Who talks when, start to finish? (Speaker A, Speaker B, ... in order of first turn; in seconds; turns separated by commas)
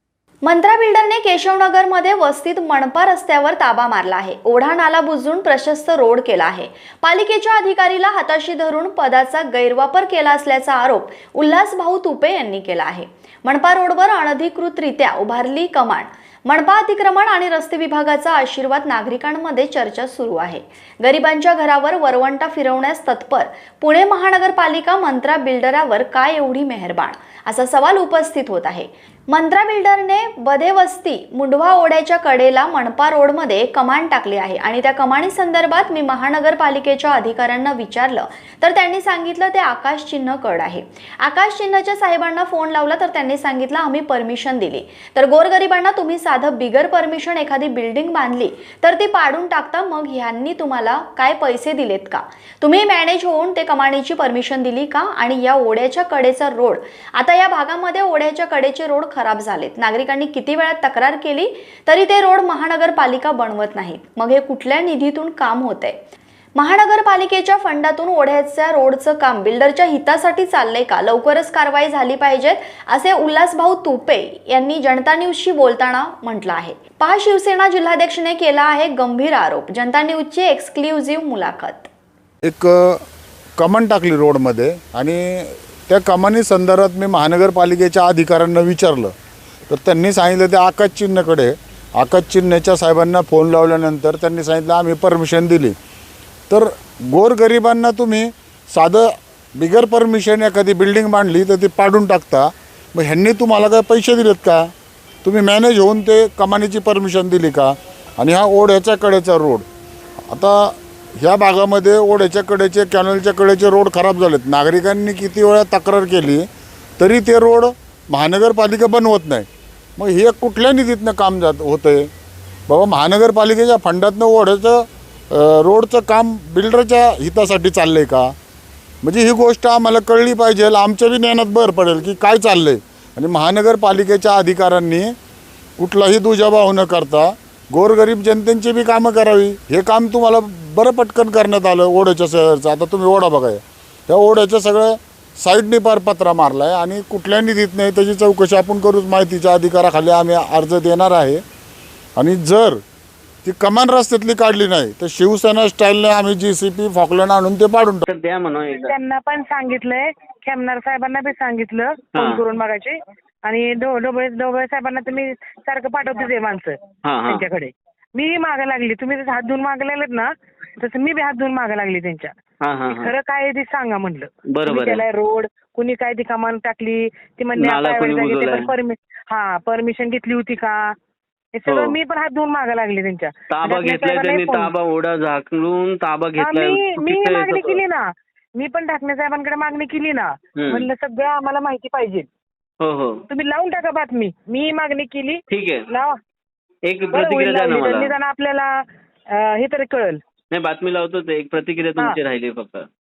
Speaker A: 0.4-66.0, Speaker A: 66.6-81.9, Speaker B: 82.4-83.0, Speaker B: 83.6-89.1, Speaker B: 89.7-95.8, Speaker B: 96.5-104.7, Speaker B: 105.2-109.7, Speaker B: 110.3-116.5, Speaker B: 117.0-122.1, Speaker B: 122.7-128.3, Speaker B: 129.0-135.1, Speaker B: 135.8-151.4, Speaker B: 152.2-152.8, Speaker B: 153.4-158.1, Speaker C: 158.1-158.9, Speaker D: 158.9-172.3, Speaker C: 162.2-162.4, Speaker C: 167.1-167.4, Speaker C: 172.6-173.1, Speaker D: 172.9-180.9, Speaker C: 174.5-175.1, Speaker C: 177.6-178.7, Speaker D: 181.6-184.7, Speaker C: 181.7-182.0, Speaker C: 183.5-187.8, Speaker D: 186.4-188.0, Speaker D: 188.6-192.3, Speaker C: 190.6-190.9, Speaker C: 192.8-193.2, Speaker D: 193.3-196.1, Speaker C: 195.5-195.8, Speaker C: 196.9-198.1, Speaker D: 197.1-198.7, Speaker D: 199.4-200.2, Speaker C: 200.5-202.9